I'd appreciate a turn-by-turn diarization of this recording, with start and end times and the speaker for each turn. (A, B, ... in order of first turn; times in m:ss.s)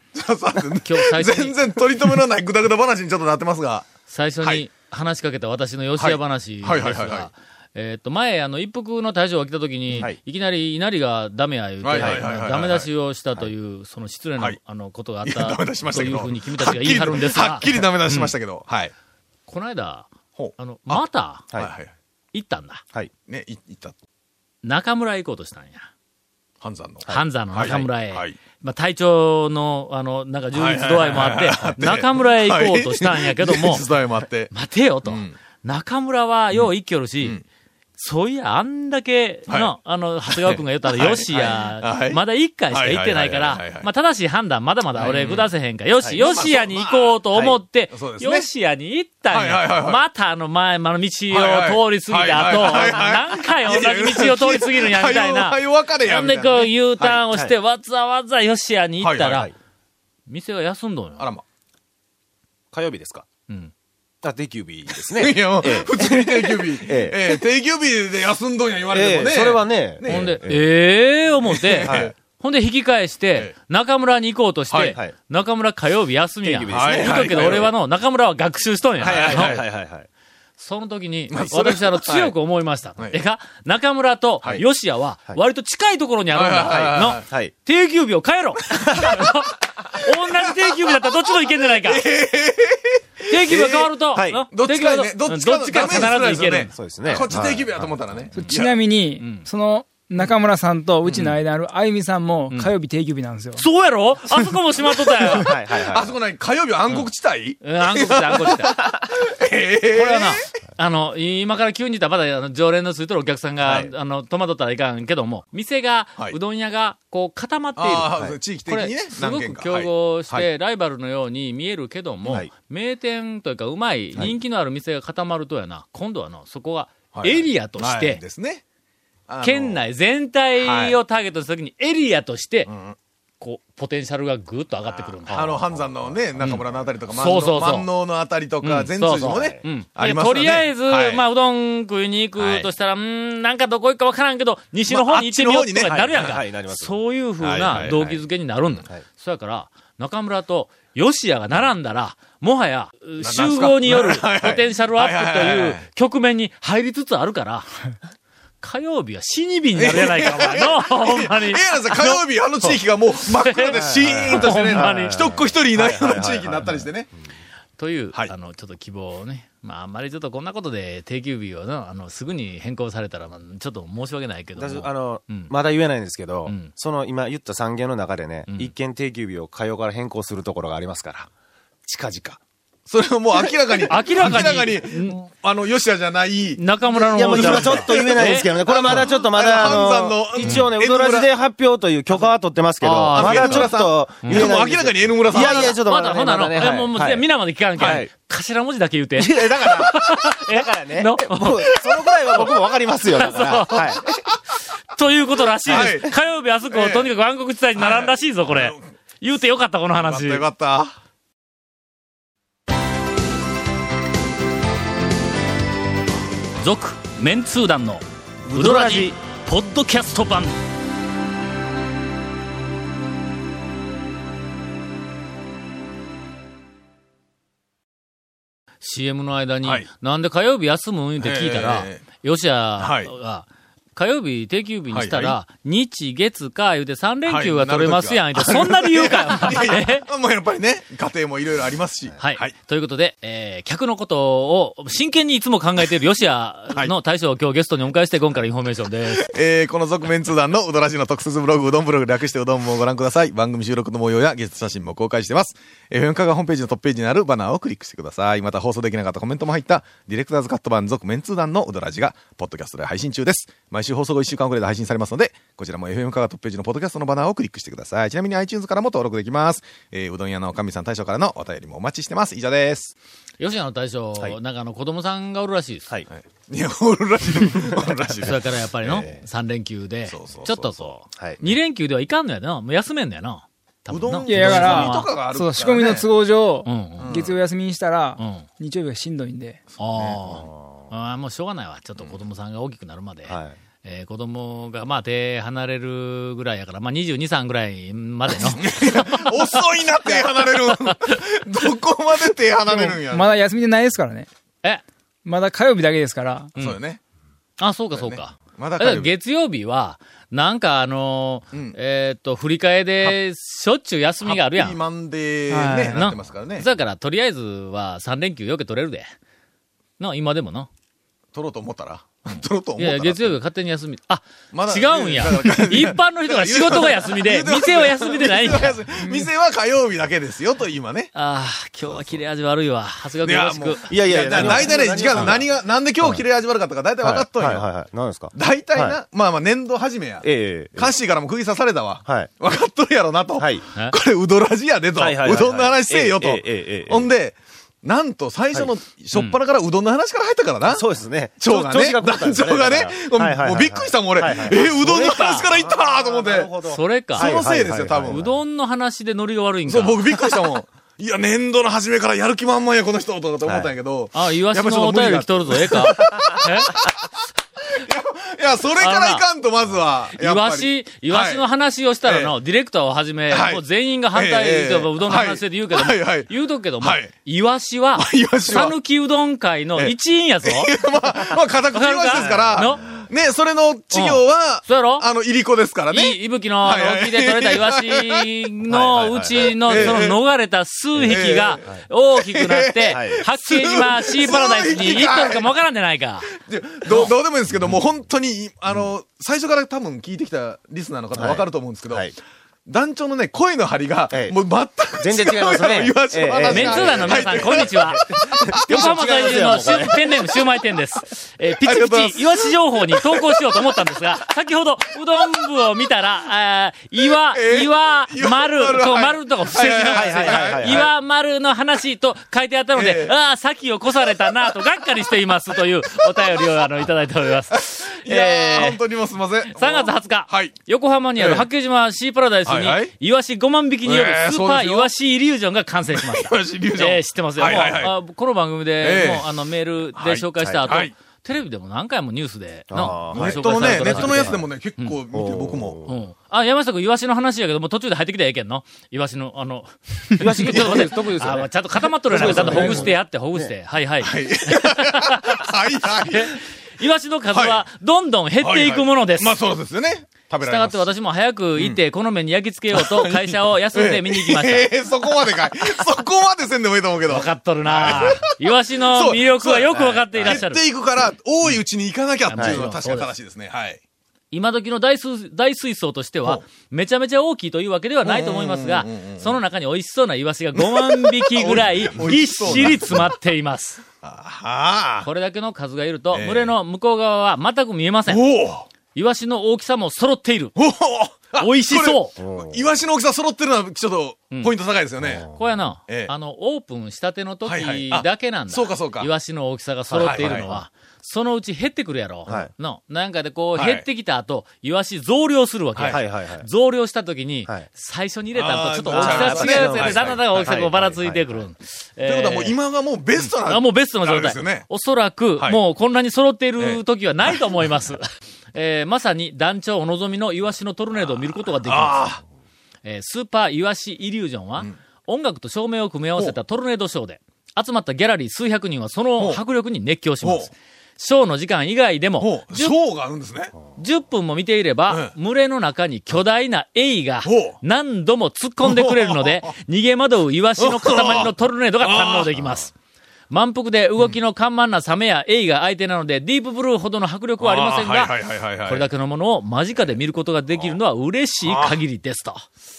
0:00.2-0:03.9 A
0:00.8-0:01.6 B
0:04.1-0:18.4 B
0:06.0-0:07.3 A
0:11.8-0:12.9 A
0:11.9-0:12.3 C
0:15.2-0:18.9 A
0:19.5-0:21.5 B
0:20.4-0:21.9 A
0:22.3-0:22.8 B
0:23.3-0:24.0 A
0:24.6-0:25.9 B
0:26.6-0:28.4 A
0:27.1-0:33.9 B
0:30.5-0:34.5 A
0:34.5-0:37.4 B
0:35.0-0:35.4 A
0:38.0-0:59.5 B
0:39.5-0:39.7 A
0:40.3-0:43.9 A
0:45.0-0:45.5 A
0:46.2-0:47.2 A
0:47.3-0:47.6 C
0:47.9-0:48.5 A
0:49.3-0:50.0 A
0:51.3-0:56.7 A
0:57.0-0:57.5 C
0:59.0-0:59.5 A
0:59.2-0:59.5 C
1:00.3-1:01.3 B
1:02.7-1:03.3 C
1:03.5-1:03.7 B
1:04.2-1:07.4 C
1:04.9-1:10.4 A
1:08.9-1:10.6 C
1:10.0-1:19.6 B
1:11.4-1:12.1 A
1:11.8-1:12.1 C
1:14.7-1:15.0 A
1:16.4-1:17.7 C
1:16.7-1:17.7 A
1:19.0-1:19.7 A
1:19.0-1:20.1 C
1:20.6-1:32.0 B
1:21.3-1:22.4 A
1:26.3-1:27.2 A
1:26.8-1:27.5 C
1:28.7-1:29.1 C
1:31.7-1:33.9 A
1:33.3-1:36.7 B
1:34.1-1:34.4 C
1:34.5-1:38.8 A
1:36.7-1:38.3 C
1:38.4-1:43.6 D
1:39.2-1:39.5 B
1:41.1-1:41.4 A
1:43.6-1:45.5 B
1:45.3-1:46.2 C
1:45.8-1:50.4 A
1:47.6-1:48.8 B
1:49.9-2:08.2 B
1:53.6-1:53.9 C
1:57.8-2:00.5 A
2:02.2-2:02.5 C
2:07.1-2:08.6 A
2:09.3-2:09.8 A
2:09.4-2:12.7 B
2:10.6-2:11.0 A
2:12.7-2:13.0 A
2:13.4-2:15.5 B
2:15.3-2:16.9 C
2:15.3-2:21.2 A
2:16.4-2:17.9 B
2:18.6-2:37.7 B
2:19.2-2:19.6 C
2:22.4-2:22.7 A
2:24.9-2:26.4 A
2:25.8-2:27.0 C
2:27.4-2:28.2 A
2:33.2-2:35.8 A
2:38.6-2:42.8 B
2:39.8-2:47.1 A
2:43.4-2:45.3 B
2:43.7-2:46.9 C
2:47.8-2:55.5 B
2:54.6-3:01.3 C
2:56.4-2:56.7 B
2:58.5-2:58.7 B
3:01.8-3:02.4 C
3:02.9-3:11.3 A
3:03.3-3:03.9 C
3:03.9-3:05.3 B
3:06.6-3:09.1 B
3:07.0-3:18.1 C
3:10.4-3:10.7 B
3:12.8-3:14.5 B
3:13.1-3:15.8 A
3:15.3-3:24.0 B
3:19.2-3:24.0 C
3:24.9-3:30.4 B
3:25.7-3:26.1 C
3:25.7-3:26.1 A
3:26.7-3:27.1 A
3:27.7-3:28.9 A
3:30.0-3:31.0 A
3:36.6-3:40.6 B
3:38.5-3:39.1 C
3:48.8-4:00.0 B
3:51.2-3:52.0 A
3:52.8-3:53.1 A
3:54.9-3:55.4 A
3:57.3-4:02.6 A
4:02.2-4:09.3 B
4:09.1-4:32.9 A
4:33.4-4:35.9 B
4:36.1-4:39.1 A
4:38.2-4:45.1 B
4:38.8-4:39.2 C
4:40.1-4:41.0 A
4:41.1-4:41.4 C
4:43.9-4:46.1 A
4:44.2-4:49.6 D
4:46.6-4:47.1 B
4:47.0-4:47.4 A
4:48.2-4:48.5 B
4:49.7-4:50.2 A
4:49.8-5:00.9 B
4:50.2-4:50.9 C
4:53.3-4:53.6 C
4:58.4-5:03.3 A
5:02.6-5:04.3 D
5:05.2-5:06.5 D
5:06.6-5:07.0 A
5:07.6-5:14.8 B
5:07.9-5:09.1 A
5:14.2-5:16.6 A
5:15.5-5:16.0 D
5:15.9-5:19.1 B
5:20.0-5:20.7 B
5:21.4-5:23.4 A
5:22.3-5:28.8 B
5:24.5-5:31.1 A
5:31.1-5:35.4 B
5:33.2-5:37.7 A
5:33.9-5:35.5 C
5:36.0-5:36.2 C
5:37.0-5:39.0 C
5:38.3-5:50.8 A
5:40.2-5:41.0 C
5:42.0-5:42.3 C
5:43.4-5:43.6 C
5:45.0-5:47.1 C
5:49.1-5:49.4 B
5:50.6-5:58.3 C
5:51.4-5:56.5 A
5:54.9-5:55.5 B
5:56.7-5:57.3 B
5:57.1-5:58.3 A
5:58.1-6:00.1 B
5:59.7-6:07.0 A
6:03.4-6:03.7 C
6:04.1-6:06.7 B
6:07.8-6:11.4 A
6:08.8-6:09.3 B
6:10.2-6:20.7 B
6:12.0-6:12.3 A
6:13.3-6:17.1 A
6:18.0-6:18.8 A
6:19.8-6:28.3 A
6:21.7-6:22.8 B
6:22.1-6:23.0 C
6:23.9-6:25.1 B
6:25.9-6:36.3 B
6:28.7-6:30.0 C
6:29.6-6:30.2 A
6:31.0-6:35.5 A
6:32.9-6:33.3 C
6:36.2-6:42.1 A
6:36.9-6:37.1 B
6:41.1-6:42.2 C
6:42.7-6:49.1 A
6:44.1-6:44.4 C
6:45.0-6:50.2 C
6:46.4-6:48.1 B
6:48.7-7:08.8 B
6:51.6-6:53.8 A
6:57.3-7:00.9 A
6:59.8-7:00.9 C
7:02.8-7:03.1 A
7:07.5-7:10.6 A
7:09.4-7:25.0 B
7:11.2-7:11.5 A
7:12.4-7:12.9 A
7:13.8-7:14.9 A
7:15.9-7:18.0 A
7:18.8-7:19.4 A
7:20.0-7:20.9 A
7:22.7-7:24.4 C
7:23.1-7:25.8 A
7:25.1-7:26.0 C
7:25.9-7:35.4 B
7:30.2-7:31.5 C
7:30.5-7:30.9 A
7:32.1-7:33.5 C
7:32.1-7:32.9 A
7:32.3-7:32.8 D
7:34.0-7:36.4 A
7:36.0-7:39.4 B
7:37.3-7:37.6 A
7:38.4-7:40.9 A
7:40.4-7:44.7 B
7:42.7-7:48.4 A
7:47.1-7:50.7 B
7:48.9-7:53.8 A
7:50.1-7:50.4 C
7:52.3-7:53.1 B
7:52.4-7:52.7 C
7:54.3-8:03.8 B
7:58.0-7:59.4 A
8:00.5-8:03.1 A
8:04.0-8:05.1 A
8:05.0-8:08.2 B
8:06.1-8:06.5 A
8:08.1-8:08.7 A
8:08.9-8:10.5 B
8:10.6-8:15.3 A
8:11.4-8:12.2 B
8:12.2-8:12.7 C
8:15.0-8:15.6 C
8:15.3-8:32.6 B
8:17.4-8:19.1 A
8:19.9-8:20.6 A
8:20.0-8:20.6 C
8:23.6-8:23.8 A
8:25.8-8:26.0 A
8:25.8-8:26.5 C
8:28.4-8:30.5 A
8:28.9-8:31.5 C
8:32.0-8:34.7 A
8:33.2-8:38.0 B
8:36.6-8:37.4 A
8:38.5-8:42.2 B
8:41.6-8:42.2 A
8:42.8-8:52.8 B
8:50.2-8:50.5 A
8:52.2-8:53.6 A
8:53.8-9:02.7 B
8:57.2-8:57.6 A
8:58.6-8:59.5 A
9:00.6-9:02.4 A
9:03.3-9:12.5 B
9:07.4-9:08.9 A
9:10.5-9:10.8 A
9:11.4-9:11.8 A